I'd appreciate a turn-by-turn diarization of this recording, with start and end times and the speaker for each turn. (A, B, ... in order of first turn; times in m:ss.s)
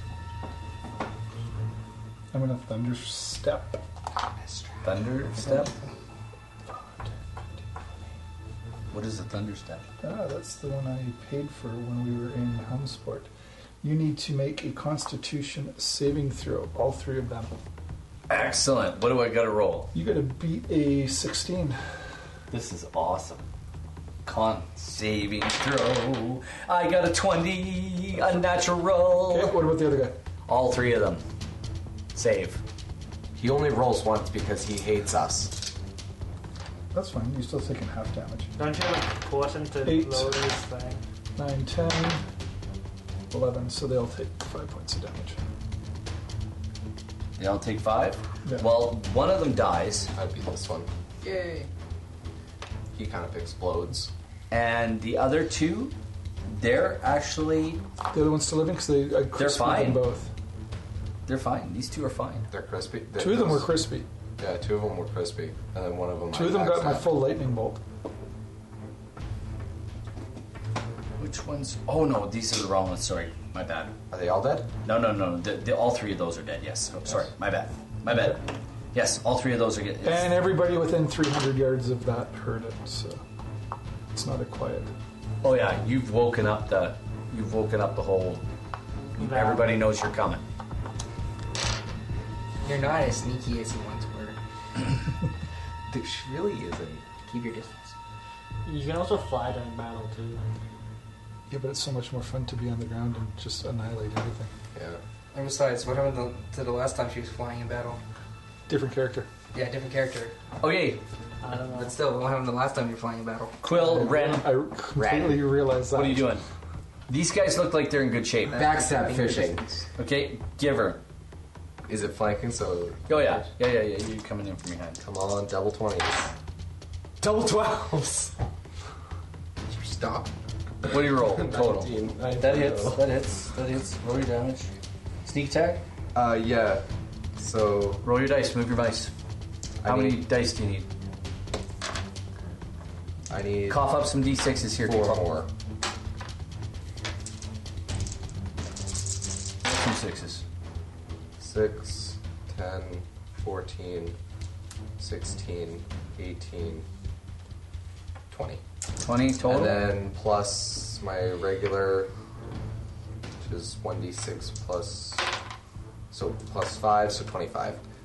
0:02.3-0:03.8 A
0:04.8-0:05.7 B
0:05.4-0:05.7 A
0:08.9-0:09.8 B
0:10.0-0:13.3 A
0:13.8-0:17.5 A
0:18.3-0:19.9 B
0:19.9-0:21.8 A
0:22.5-0:23.4 B
0:24.2-0:29.6 B
0:29.3-0:30.2 A
0:30.5-0:31.2 B
0:32.1-0:32.6 B
0:33.4-0:35.6 C
0:36.9-0:38.5 A
0:38.6-0:41.0 D
0:39.8-0:40.4 A
0:41.4-0:42.2 A
0:43.3-0:45.4 A
0:47.4-0:50.1 B
0:50.1-0:50.9 C
0:51.2-0:51.7 E
0:52.9-0:54.1 C
0:54.5-0:55.9 B
0:56.5-0:57.8 B
0:58.1-1:00.3 A
0:59.4-1:00.0 B
1:01.2-1:02.5 B
1:02.5-1:03.7 C
1:03.2-1:04.0 A
1:04.4-1:07.1 C
1:06.3-1:07.8 A
1:11.2-1:13.9 B
1:14.1-1:14.7 C
1:14.8-1:20.4 B
1:20.0-1:23.2 A
1:24.1-1:24.9 A
1:25.4-1:28.4 B
1:29.2-1:30.4 B
1:29.2-1:29.8 D
1:32.6-1:34.4 E
1:35.9-1:37.0 C
1:37.2-1:37.9 E
1:38.6-1:40.5 D
1:41.5-1:44.5 A
1:44.7-1:45.0 C
1:45.3-1:48.0 E
1:48.7-1:49.3 A
1:49.5-1:50.3 E
1:50.6-1:51.0 B
1:51.4-1:51.9 D
1:51.7-1:53.5 E
1:53.6-1:54.5 B
1:53.7-1:56.4 A
1:55.0-1:55.3 C
1:55.9-1:56.4 B
1:57.1-1:58.6 B
1:58.5-1:59.8 E
1:58.5-1:59.6 C
2:00.0-2:01.0 B
2:01.8-2:03.5 C
2:03.1-2:05.0 B
2:05.0-2:06.3 C
2:07.2-2:08.3 C
2:09.7-2:10.3 E
2:10.9-2:13.0 C
2:10.9-2:14.7 B
2:15.2-2:15.8 B
2:16.1-2:16.8 C
2:17.4-2:18.0 C
2:18.0-2:19.1 B
2:19.8-2:20.2 C
2:19.8-2:20.9 B
2:23.3-2:23.9 C
2:23.7-2:25.2 B
2:24.8-2:25.5 C
2:29.6-2:30.4 B
2:31.4-2:34.2 C
2:35.0-2:36.8 C
2:38.3-2:38.6 C
2:39.0-2:39.8 B
2:39.4-2:42.1 C
2:43.4-2:45.2 C
2:46.1-2:47.8 C